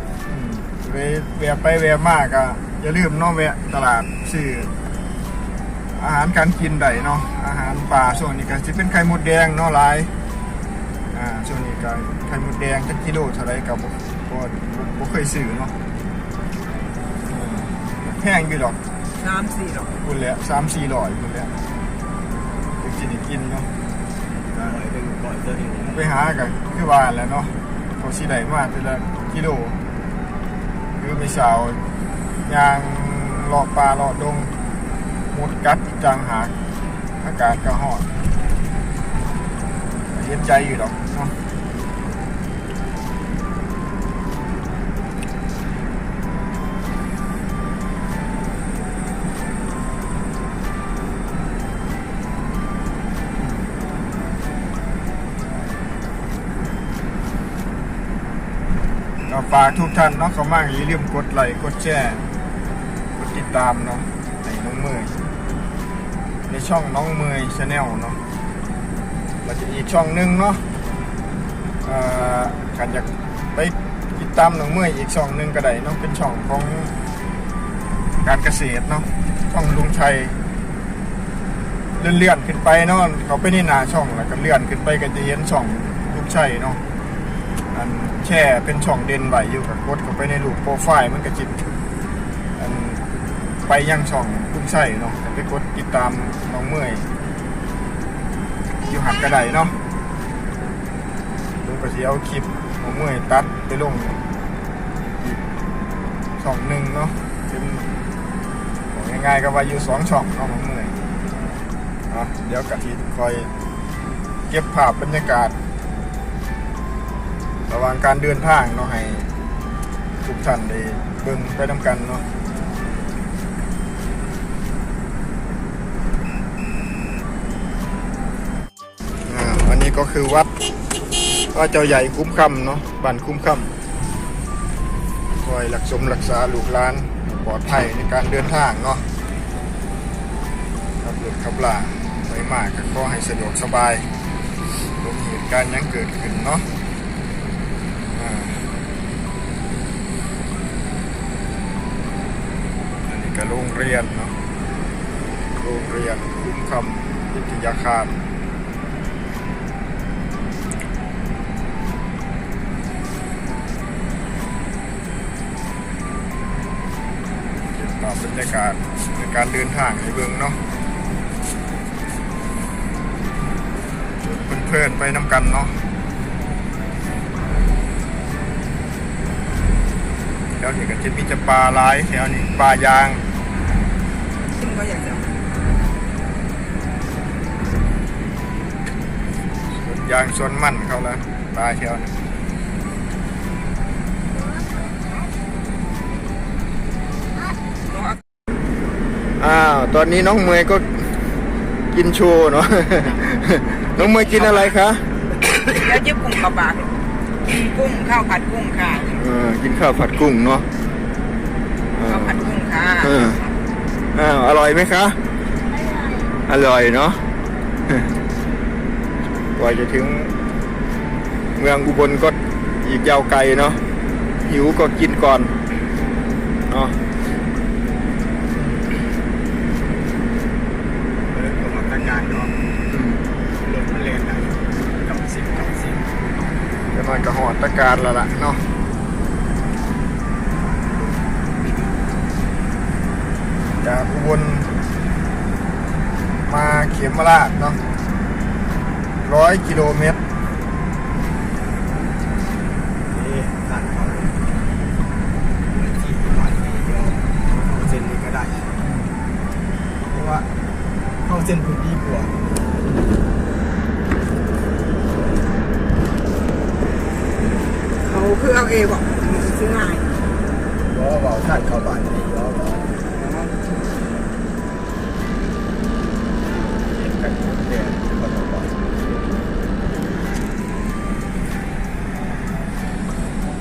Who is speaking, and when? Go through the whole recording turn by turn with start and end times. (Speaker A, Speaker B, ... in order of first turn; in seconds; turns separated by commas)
Speaker A: 0.3-4.7, Speaker A: 5.9-10.1, Speaker A: 11.1-15.7, Speaker A: 17.2-18.8, Speaker B: 19.1-20.0, Speaker A: 20.0-21.5, Speaker A: 22.8-23.7, Speaker C: 24.5-26.1, Speaker A: 25.9-29.8, Speaker A: 31.0-31.8, Speaker A: 32.4-34.5, Speaker A: 35.3-36.5, Speaker A: 37.2-38.1, Speaker A: 40.1-41.3, Speaker A: 53.4-53.7, Speaker A: 59.3-62.2, Speaker A: 63.1-65.1, Speaker A: 66.5-68.2, Speaker A: 69.4-70.6, Speaker A: 71.8-76.9, Speaker A: 78.2-80.4, Speaker A: 82.0-86.8, Speaker A: 87.7-91.5, Speaker A: 92.5-93.0, Speaker A: 93.7-97.1, Speaker A: 98.8-99.8, Speaker A: 101.6-104.2, Speaker A: 105.1-105.4, Speaker A: 106.4-107.9, Speaker A: 108.9-111.0, Speaker A: 112.1-113.5, Speaker A: 114.5-115.5, Speaker A: 117.7-119.3, Speaker A: 120.2-122.2, Speaker A: 129.2-130.5, Speaker A: 131.2-133.7, Speaker A: 135.4-139.0, Speaker A: 141.0-144.1, Speaker A: 144.9-146.7, Speaker A: 148.1-148.7, Speaker A: 153.1-154.3, Speaker A: 155.6-158.2, Speaker A: 167.6-170.6, Speaker A: 174.2-175.8, Speaker A: 180.6-183.2, Speaker B: 184.5-185.3, Speaker A: 189.7-192.1, Speaker B: 197.9-198.2, Speaker A: 199.4-201.1, Speaker A: 201.9-205.2, Speaker B: 204.0-204.7, Speaker B: 205.5-209.2, Speaker A: 209.2-210.7, Speaker A: 211.9-212.5, Speaker B: 212.0-213.5, Speaker A: 213.0-213.4, Speaker A: 214.1-215.2, Speaker A: 216.5-217.2, Speaker A: 219.5-220.3, Speaker A: 221.6-223.8, Speaker A: 224.4-225.5, Speaker A: 226.7-227.0, Speaker C: 231.2-232.6, Speaker A: 232.9-233.2, Speaker C: 233.6-236.1, Speaker A: 236.9-238.7, Speaker C: 240.5-242.1, Speaker A: 243.8-244.7, Speaker A: 246.4-247.8, Speaker A: 249.2-250.2, Speaker C: 253.1-254.4, Speaker C: 255.7-258.8, Speaker C: 260.1-260.5, Speaker C: 261.2-262.5, Speaker B: 267.9-270.1, Speaker C: 270.9-272.9, Speaker B: 273.0-274.0, Speaker C: 276.8-278.8